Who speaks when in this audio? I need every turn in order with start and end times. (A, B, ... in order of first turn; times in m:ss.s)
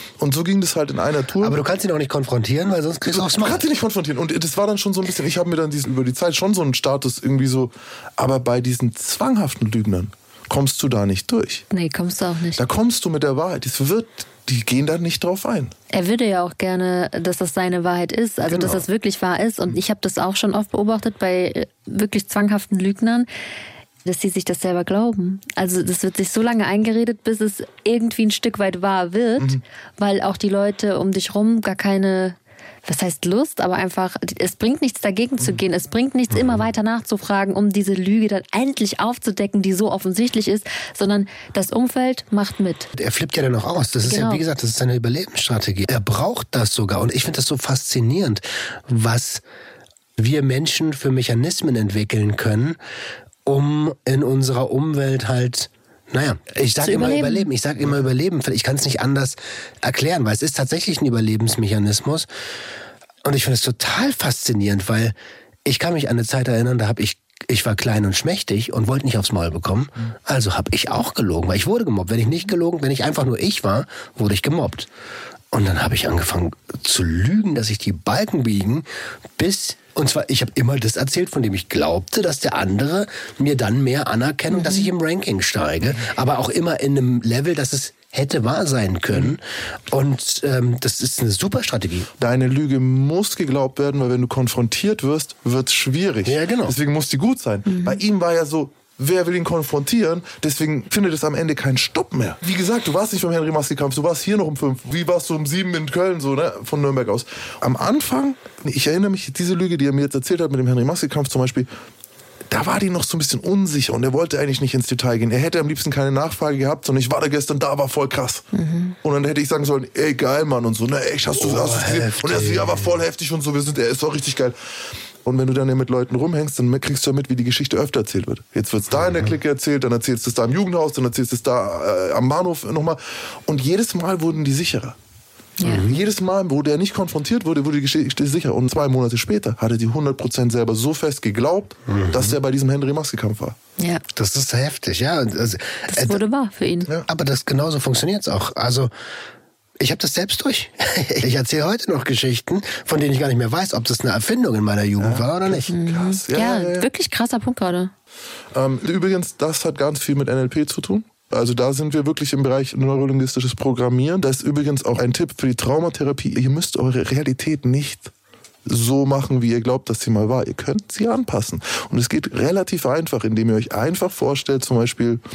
0:00.2-0:01.6 A
0:01.4-0:03.6 B
0:03.1-0:11.6 A
0:11.7-0:12.6 C
0:12.6-0:15.7 A
0:15.9-0:23.3 C
0:18.4-0:18.8 B
0:24.0-0:42.9 C
0:42.9-0:49.4 B
0:44.0-0:44.4 C
0:50.2-0:52.8 B
0:53.4-1:02.3 B
0:56.8-0:57.5 C
1:03.2-1:14.9 B
1:15.5-1:18.8 B
1:19.4-1:32.1 B
1:24.5-1:24.9 C
1:32.2-1:51.7 A
1:36.2-1:36.8 B
1:37.7-1:38.0 C
1:52.5-1:58.5 A
1:58.5-1:59.0 C
1:59.0-2:04.5 A
2:01.3-2:02.9 B
2:05.2-2:15.0 A
2:15.6-2:15.8 C
2:15.6-2:16.0 B
2:15.6-2:23.6 A
2:21.9-2:22.4 B
2:24.1-2:26.2 B
2:25.9-2:26.9 C
2:27.1-2:28.9 B
2:29.8-2:35.7 B
2:35.0-2:36.9 A
2:35.7-2:37.9 C
2:38.5-2:48.1 A
2:48.6-2:55.2 A